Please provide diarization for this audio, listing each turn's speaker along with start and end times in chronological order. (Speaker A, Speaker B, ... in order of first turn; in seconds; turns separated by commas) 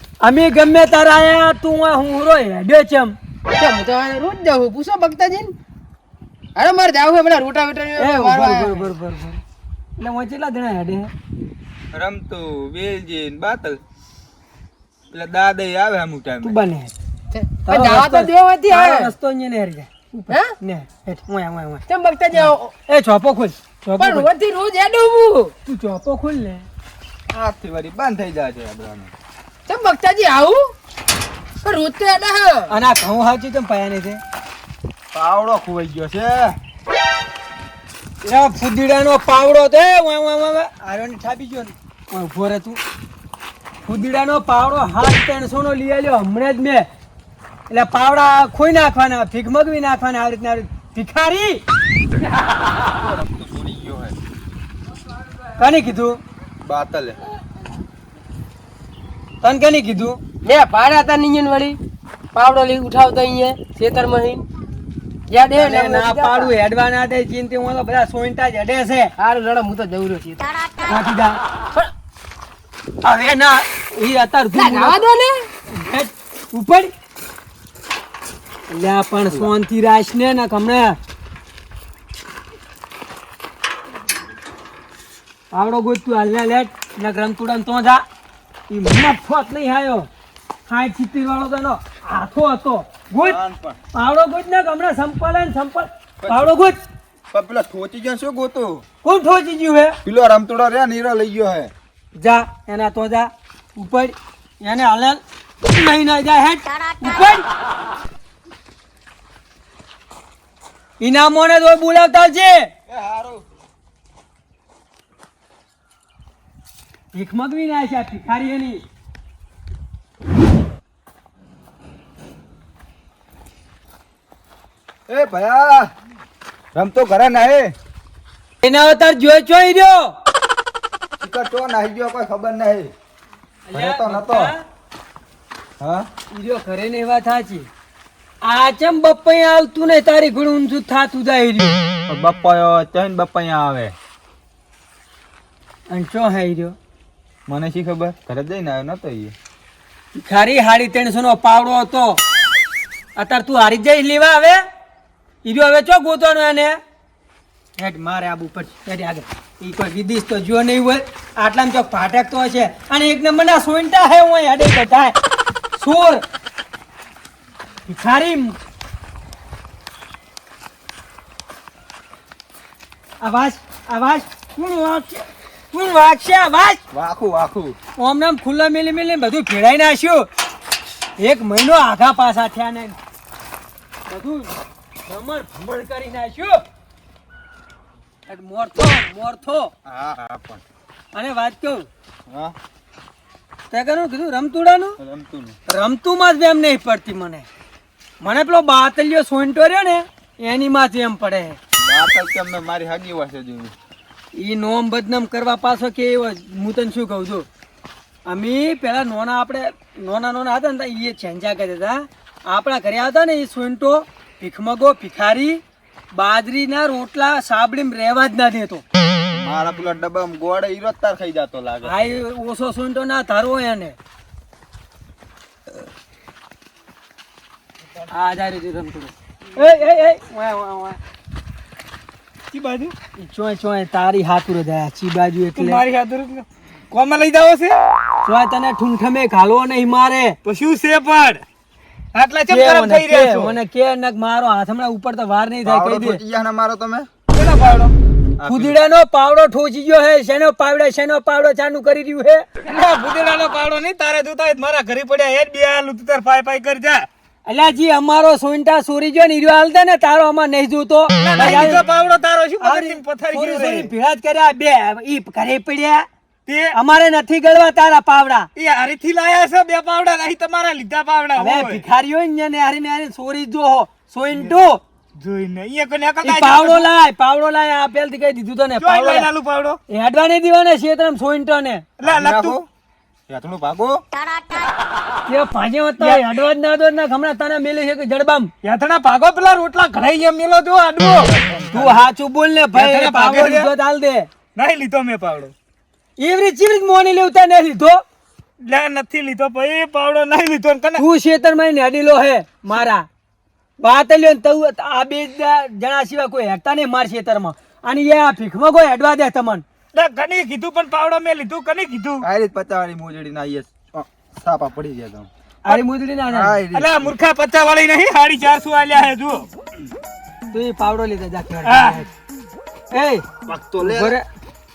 Speaker A: 0.2-3.2, Speaker B: 3.5-5.5, Speaker B: 6.6-8.9, Speaker A: 8.0-9.4, Speaker A: 10.0-11.1, Speaker C: 11.9-13.8, Speaker C: 15.1-16.6, Speaker A: 16.4-16.9, Speaker B: 17.3-19.1, Speaker A: 17.7-24.3, Speaker B: 21.9-22.7, Speaker B: 24.0-25.5, Speaker A: 25.7-26.7, Speaker C: 27.3-29.1, Speaker B: 29.7-30.7, Speaker B: 31.6-32.7, Speaker A: 32.7-34.2, Speaker C: 35.1-36.6, Speaker A: 38.2-42.8, Speaker A: 43.8-46.9, Speaker A: 47.7-51.6, Speaker C: 53.0-54.2, Speaker A: 55.6-56.2, Speaker C: 56.6-57.2, Speaker A: 59.4-60.2, Speaker B: 60.4-61.8, Speaker B: 62.3-64.4, Speaker B: 65.3-66.5, Speaker A: 65.5-69.1, Speaker B: 69.2-70.5, Speaker A: 70.8-71.4, Speaker A: 73.0-75.0, Speaker B: 74.5-75.5, Speaker A: 75.7-76.9, Speaker A: 78.7-81.0, Speaker A: 85.5-88.0, Speaker A: 88.7-90.1, Speaker A: 90.7-93.4, Speaker C: 93.2-93.8, Speaker A: 93.9-96.8, Speaker C: 96.2-96.5, Speaker C: 97.3-98.8, Speaker A: 99.0-100.0, Speaker C: 100.0-101.7, Speaker A: 102.2-107.5, Speaker A: 111.0-112.7, Speaker C: 112.9-113.5, Speaker A: 117.1-118.8, Speaker C: 125.1-125.9, Speaker C: 126.7-127.8, Speaker A: 128.6-130.2, Speaker C: 131.2-132.9, Speaker A: 133.7-134.6, Speaker C: 133.7-134.5, Speaker C: 135.8-136.1, Speaker A: 136.3-137.7, Speaker A: 138.4-141.8, Speaker C: 142.1-143.9, Speaker A: 145.9-146.8, Speaker C: 147.5-149.3, Speaker A: 150.1-152.2, Speaker A: 153.2-154.6, Speaker A: 155.4-156.8, Speaker A: 157.8-165.2, Speaker A: 165.7-166.2, Speaker A: 167.9-168.6, Speaker A: 173.2-176.8, Speaker C: 176.9-177.8, Speaker A: 178.0-180.3, Speaker A: 181.2-183.0, Speaker A: 184.1-184.5, Speaker A: 185.1-186.6, Speaker A: 188.3-189.7, Speaker C: 189.9-190.6, Speaker A: 191.1-191.9, Speaker C: 192.3-192.6, Speaker A: 193.7-195.0, Speaker C: 195.0-195.6, Speaker A: 195.7-197.5, Speaker A: 198.2-201.6, Speaker C: 201.8-203.8, Speaker A: 204.3-207.5, Speaker A: 208.3-215.6, Speaker A: 216.1-218.8, Speaker C: 219.3-221.9, Speaker A: 221.8-224.0, Speaker A: 228.1-231.0, Speaker D: 232.5-232.9, Speaker A: 233.2-235.8, Speaker D: 235.6-237.8, Speaker A: 238.2-240.4, Speaker D: 240.4-241.4, Speaker D: 242.1-243.6, Speaker A: 242.5-246.2, Speaker C: 245.7-247.1, Speaker D: 247.3-247.9, Speaker C: 248.4-248.8, Speaker A: 248.5-252.4, Speaker D: 252.6-257.1, Speaker A: 257.5-261.8, Speaker D: 261.2-263.9, Speaker A: 262.6-266.1, Speaker D: 266.5-266.8, Speaker A: 266.7-268.5, Speaker D: 268.6-271.8, Speaker A: 271.4-274.8, Speaker D: 275.2-276.9, Speaker A: 276.2-279.3, Speaker D: 278.8-279.8, Speaker A: 279.9-281.9, Speaker D: 282.0-282.6, Speaker C: 282.0-282.7, Speaker C: 283.3-284.0, Speaker A: 285.3-288.5, Speaker D: 286.0-286.4, Speaker D: 288.6-291.3, Speaker C: 291.2-292.1, Speaker A: 291.7-294.3, Speaker D: 292.7-293.7, Speaker D: 294.6-295.5, Speaker A: 296.2-298.0, Speaker D: 298.7-301.0, Speaker A: 301.0-303.1, Speaker A: 303.8-309.6, Speaker D: 309.9-312.2, Speaker C: 312.2-315.3, Speaker A: 315.6-316.6, Speaker C: 316.3-317.1, Speaker D: 316.7-319.5, Speaker A: 320.5-322.1, Speaker D: 321.6-322.0, Speaker A: 322.9-323.2, Speaker C: 323.5-324.2, Speaker A: 323.8-324.2